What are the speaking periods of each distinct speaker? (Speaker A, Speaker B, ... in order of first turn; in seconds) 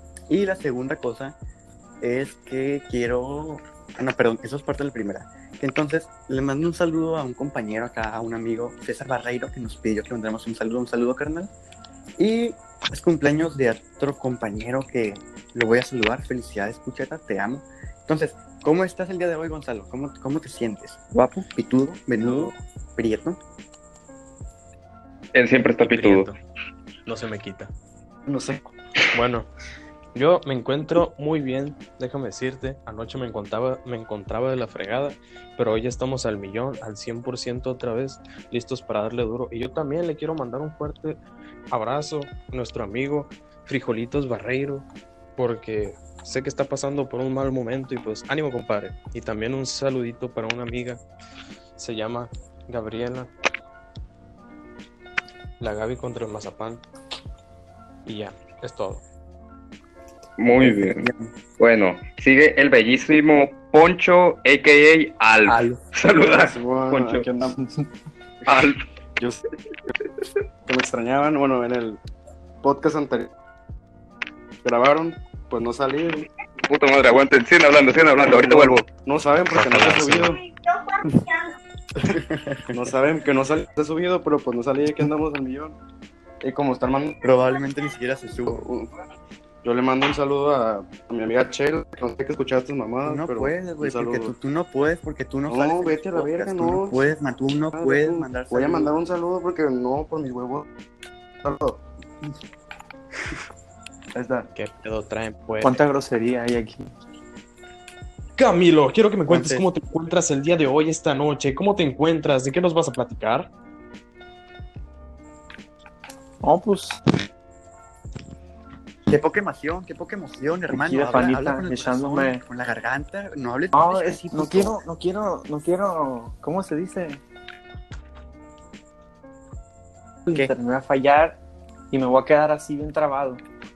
Speaker A: 0.3-1.4, 2.0-11.5, 12.2-23.4, 60.6-61.3, 65.5-65.8, 82.1-82.7, 87.2-88.6, 93.0-98.9, 109.3-109.7, 119.1-124.8
Speaker B: 25.3-26.3, 60.4-67.2, 68.5-68.8, 76.7-78.8
Speaker C: 25.9-26.4, 27.1-27.7, 29.1-29.5, 30.1-41.2, 41.7-51.0, 51.8-53.3, 55.6-56.8, 58.0-59.0, 79.5-80.3, 104.5-105.8, 108.4-113.5
Speaker D: 28.3-28.6, 66.2-67.8, 70.7-72.0, 72.6-73.3, 74.6-76.3, 78.2-80.4, 82.7-85.8, 86.4-87.2, 88.5-88.9, 89.6-94.3, 95.5-97.1, 97.8-100.7, 101.4-101.8, 104.2-104.5
Speaker E: 105.6-106.9, 116.4-117.0, 120.7-122.4, 123.7-127.2, 130.3-131.4, 131.9-133.4